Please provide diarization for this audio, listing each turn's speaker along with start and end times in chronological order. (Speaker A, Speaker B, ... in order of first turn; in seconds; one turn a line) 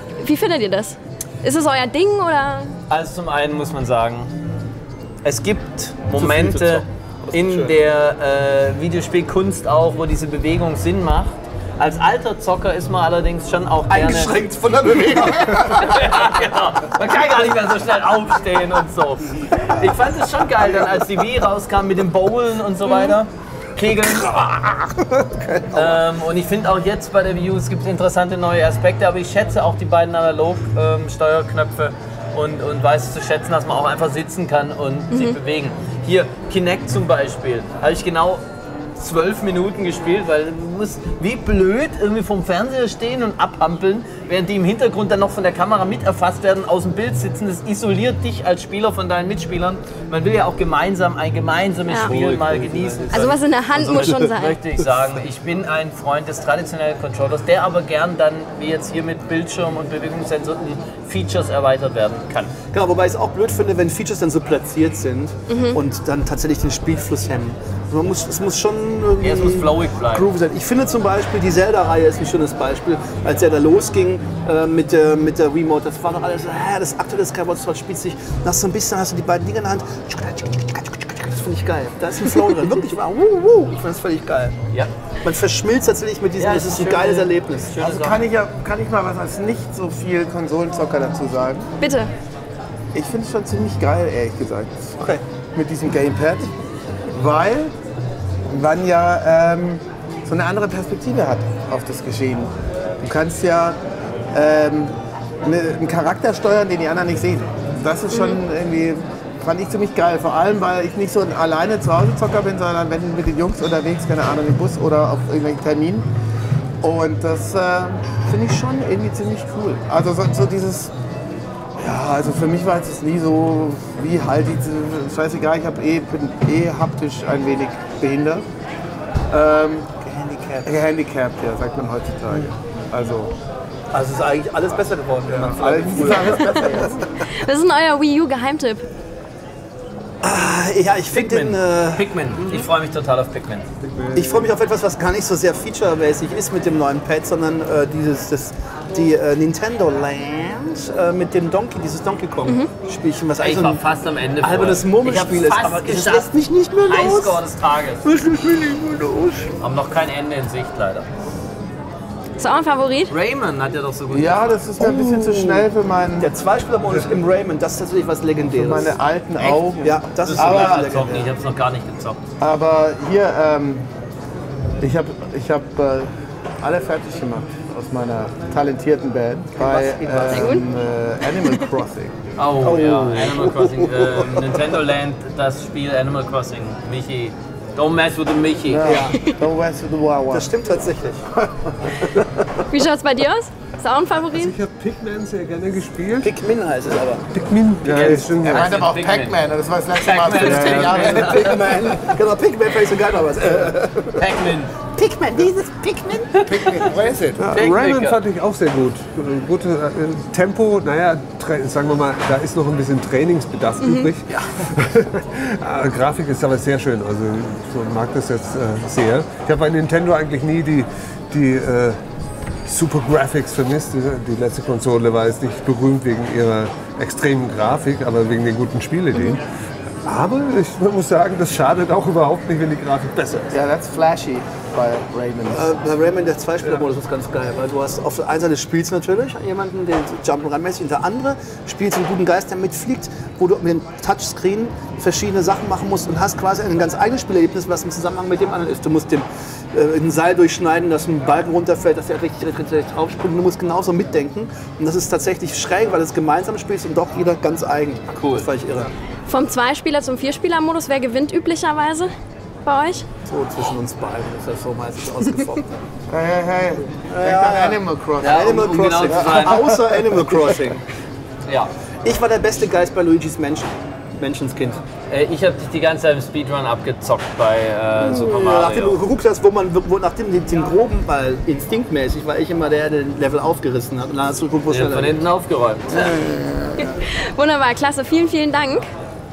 Speaker A: 0.2-2.7
Speaker B: 2.9-4.3
Speaker B: 5.2-14.4
Speaker C: 6.1-7.8
Speaker C: 13.9-16.0
Speaker B: 15.0-24.7
Speaker C: 24.7-26.0
Speaker B: 25.7-38.4
Speaker A: 35.1-35.4
Speaker B: 39.0-62.5
Speaker A: 51.9-52.2
Speaker C: 52.1-53.0
Speaker A: 53.1-54.6
Speaker C: 62.7-84.6
Speaker A: 65.5-65.8
Speaker B: 69.2-70.3
Speaker C: 85.2-87.8
Speaker B: 86.4-88.3
Speaker D: 87.8-91.7
Speaker A: 91.8-92.1
Speaker D: 92.9-96.5
Speaker D: 97.1-97.7
Speaker D: 98.5-103.8
Speaker D: 104.3-116.1
Speaker A: 108.1-108.4
Speaker D: 116.8-120.9
Speaker D: 121.8-128.5
Speaker D: 129.3-129.9
Speaker C: 130.1-130.7
Speaker D: 130.6-133.3
Speaker C: 133.9-137.0
Speaker D: 135.3-137.0
Speaker A: 137.4-138.9
Speaker C: 140.2-142.5
Speaker B: 141.1-143.7
Speaker E: 143.8-144.5
Speaker C: 144.1-153.8
Speaker B: 153.4-156.3
Speaker C: 154.4-157.4
Speaker B: 156.8-158.1
Speaker C: 158.1-159.5
Speaker B: 159.6-161.1
Speaker A: 162.4-163.1
Speaker B: 163.1-165.4
Speaker D: 164.1-166.3
Speaker C: 165.2-165.5
Speaker C: 166.2-169.0
Speaker D: 168.5-170.9
Speaker B: 169.4-169.7
Speaker C: 169.7-171.3
Speaker B: 170.2-172.2
Speaker D: 172.4-173.9
Speaker D: 174.8-176.1
Speaker D: 176.6-182.2
Speaker C: 179.6-180.6
Speaker A: 180.3-180.6
Speaker B: 182.4-189.1
Speaker C: 182.6-184.4
Speaker D: 188.6-190.5
Speaker C: 188.8-189.2
Speaker C: 190.3-191.2
Speaker D: 191.4-191.9
Speaker A: 192.7-194.6
Speaker E: 194.3-196.3
Speaker C: 196.2-197.3
Speaker E: 197.3-198.8
Speaker B: 197.8-199.4
Speaker D: 198.4-202.2
Speaker B: 200.0-201.8
Speaker C: 200.4-204.3
Speaker E: 200.5-200.8
Speaker B: 204.2-204.8
Speaker C: 204.8-206.8
Speaker B: 206.3-206.9
Speaker E: 206.7-222.0
Speaker B: 207.5-208.2
Speaker A: 213.8-214.1
Speaker E: 222.7-229.4
Speaker E: 230.1-233.5
Speaker D: 233.5-235.7
Speaker C: 235.5-258.9
Speaker B: 258.1-258.5
Speaker A: 259.3-262.1
Speaker A: 262.6-263.1
Speaker C: 263.3-265.8
Speaker D: 266.1-270.4
Speaker C: 267.1-270.8
Speaker B: 268.2-269.6
Speaker C: 272.0-274.8
Speaker B: 275.1-279.0
Speaker C: 278.0-285.2
Speaker B: 284.7-286.1
Speaker D: 285.9-286.9
Speaker A: 286.8-288.9